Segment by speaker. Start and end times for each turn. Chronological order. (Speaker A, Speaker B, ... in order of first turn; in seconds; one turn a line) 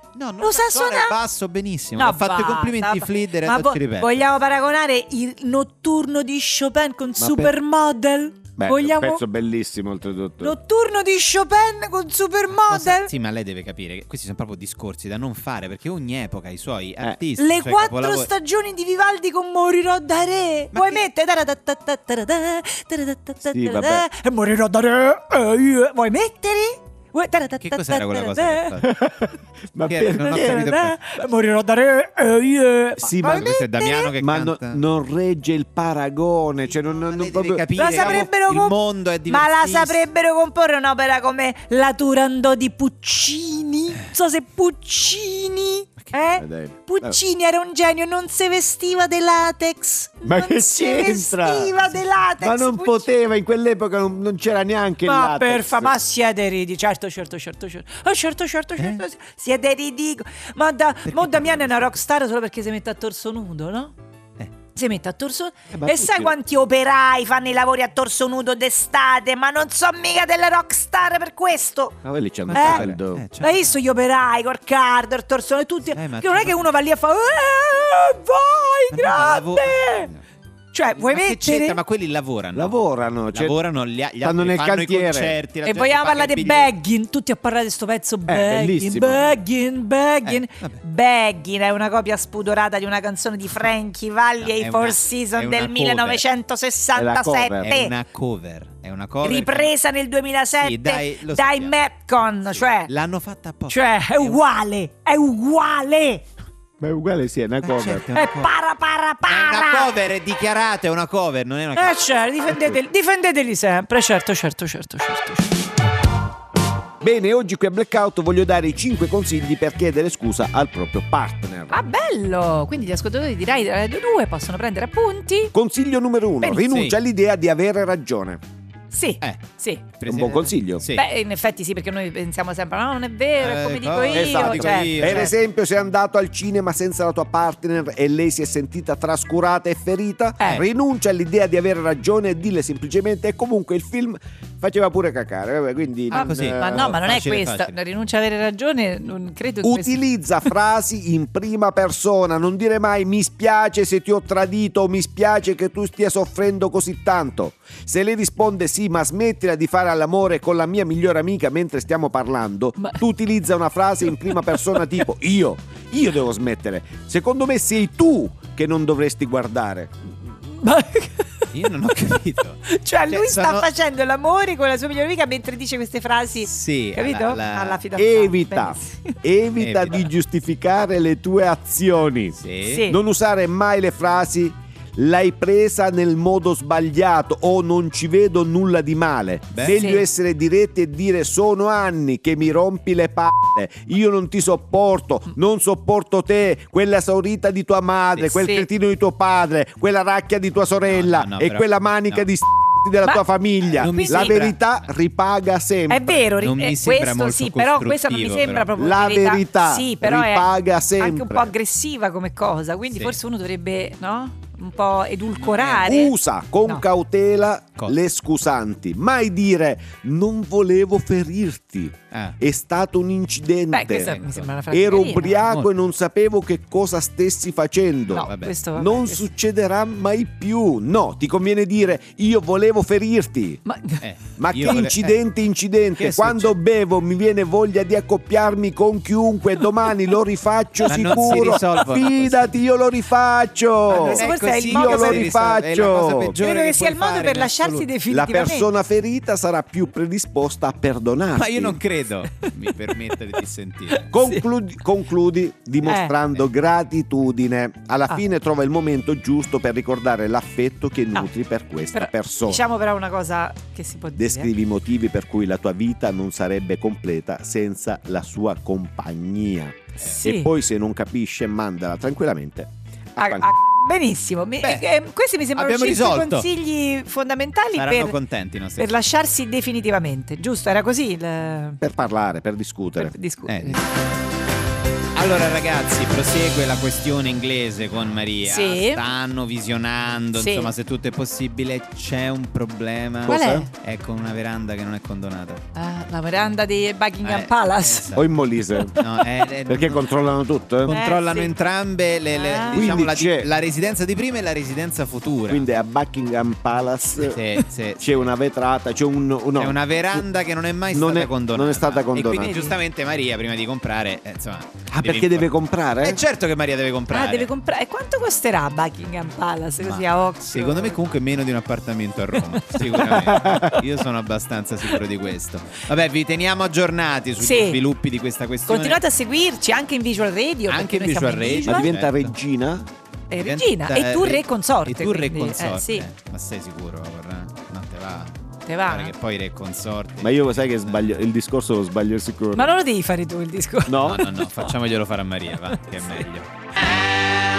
Speaker A: 0.1-4.2
Speaker B: 0.4-1.1
Speaker B: 2.0-9.2
Speaker C: 7.2-7.5
Speaker C: 8.6-10.5
Speaker B: 10.4-13.1
Speaker A: 12.5-18.3
Speaker B: 17.4-28.8
Speaker A: 20.7-21.0
Speaker C: 23.5-24.0
Speaker A: 27.6-28.9
Speaker C: 28.8-30.7
Speaker A: 29.9-31.0
Speaker B: 30.1-34.1
Speaker C: 33.0-33.5
Speaker A: 33.2-34.8
Speaker C: 34.2-38.3
Speaker A: 36.9-40.0
Speaker B: 37.7-38.8
Speaker B: 39.3-53.1
Speaker C: 46.4-47.2
Speaker C: 50.2-51.8
Speaker C: 52.4-55.9
Speaker B: 55.0-63.9
Speaker A: 61.0-62.0
Speaker B: 64.7-72.0
Speaker C: 65.7-66.3
Speaker C: 72.0-73.2
Speaker A: 72.5-73.7
Speaker B: 72.5-72.9
Speaker B: 73.4-80.1
Speaker A: 75.9-76.6
Speaker A: 78.9-80.2
Speaker B: 80.7-81.8
Speaker A: 81.0-82.8
Speaker C: 82.5-83.5
Speaker A: 83.3-86.7
Speaker C: 84.2-85.3
Speaker B: 85.6-97.9
Speaker C: 88.3-89.3
Speaker A: 90.2-90.8
Speaker A: 94.4-96.2
Speaker C: 96.9-97.7
Speaker A: 97.6-99.7
Speaker B: 99.2-102.9
Speaker A: 100.6-101.7
Speaker A: 102.6-104.4
Speaker B: 103.7-106.2
Speaker C: 106.8-108.0
Speaker A: 107.6-108.5
Speaker B: 108.1-109.9
Speaker A: 109.2-112.0
Speaker B: 111.8-115.6
Speaker C: 117.0-121.8
Speaker B: 121.7-125.5
Speaker C: 125.5-128.4
Speaker A: 126.6-127.0
Speaker B: 128.9-129.9
Speaker A: 130.0-131.0
Speaker C: 130.1-130.8
Speaker B: 130.9-135.3
Speaker A: 133.4-135.3
Speaker C: 134.1-146.9
Speaker B: 140.4-140.6
Speaker B: 146.1-150.0
Speaker A: 146.1-147.7
Speaker C: 149.6-169.9
Speaker B: 170.5-171.5
Speaker A: 171.5-173.7
Speaker B: 172.6-179.1
Speaker A: 176.4-177.8
Speaker C: 177.9-206.1
Speaker A: 179.6-180.1
Speaker A: 182.4-182.8
Speaker B: 182.6-183.0
Speaker A: 189.5-189.8
Speaker B: 189.7-190.0
Speaker B: 198.3-198.7
Speaker A: 200.9-202.2
Speaker B: 203.7-204.4
Speaker A: 203.8-204.6
Speaker B: 205.9-216.1
Speaker A: 206.3-208.7
Speaker C: 208.7-211.5
Speaker A: 215.4-215.9
Speaker C: 215.8-224.2
Speaker A: 222.1-222.4
Speaker B: 223.7-225.4
Speaker A: 223.9-224.5
Speaker C: 224.7-233.6
Speaker A: 225.4-225.7
Speaker B: 228.1-229.3
Speaker A: 228.1-228.5
Speaker B: 233.7-234.0
Speaker A: 234.0-235.2
Speaker C: 234.4-246.4
Speaker A: 235.9-236.5
Speaker A: 240.8-242.5
Speaker B: 243.9-245.6
Speaker A: 243.9-247.9
Speaker B: 246.4-248.7
Speaker C: 248.1-251.8
Speaker A: 251.3-254.1
Speaker B: 253.9-254.4
Speaker C: 254.1-262.6
Speaker B: 255.8-256.1
Speaker B: 261.9-264.5
Speaker C: 264.1-273.5
Speaker B: 270.0-270.5
Speaker B: 273.2-278.1
Speaker A: 275.6-276.5
Speaker A: 277.8-278.9
Speaker B: 278.8-281.8
Speaker C: 281.8-283.1
Speaker B: 283.0-283.9
Speaker A: 283.4-283.8
Speaker A: 285.1-295.6
Speaker B: 288.4-289.0
Speaker B: 290.3-290.7
Speaker C: 293.2-293.7
Speaker B: 293.3-293.7
Speaker B: 295.7-298.1
Speaker A: 297.2-298.3
Speaker C: 298.1-299.0
Speaker A: 298.9-300.1
Speaker C: 299.7-301.0
Speaker A: 300.8-305.6
Speaker B: 300.9-301.5
Speaker B: 302.3-302.9
Speaker C: 302.7-303.5
Speaker C: 305.5-307.4
Speaker A: 307.2-308.2
Speaker C: 308.0-310.2
Speaker A: 309.6-317.5
Speaker C: 310.9-312.6
Speaker B: 312.3-312.8
Speaker C: 314.9-316.2
Speaker B: 317.1-321.0
Speaker A: 319.8-329.0
Speaker B: 322.6-323.8
Speaker C: 323.0-323.8
Speaker B: 327.4-327.8
Speaker B: 328.7-331.9
Speaker A: 330.7-332.3
Speaker C: 331.6-332.9
Speaker B: 333.3-336.1
Speaker A: 333.3-338.3
Speaker B: 338.6-339.1
Speaker A: 338.9-341.1
Speaker C: 340.2-342.7
Speaker B: 342.5-344.7
Speaker C: 343.9-344.2
Speaker A: 344.0-346.5
Speaker B: 345.8-346.2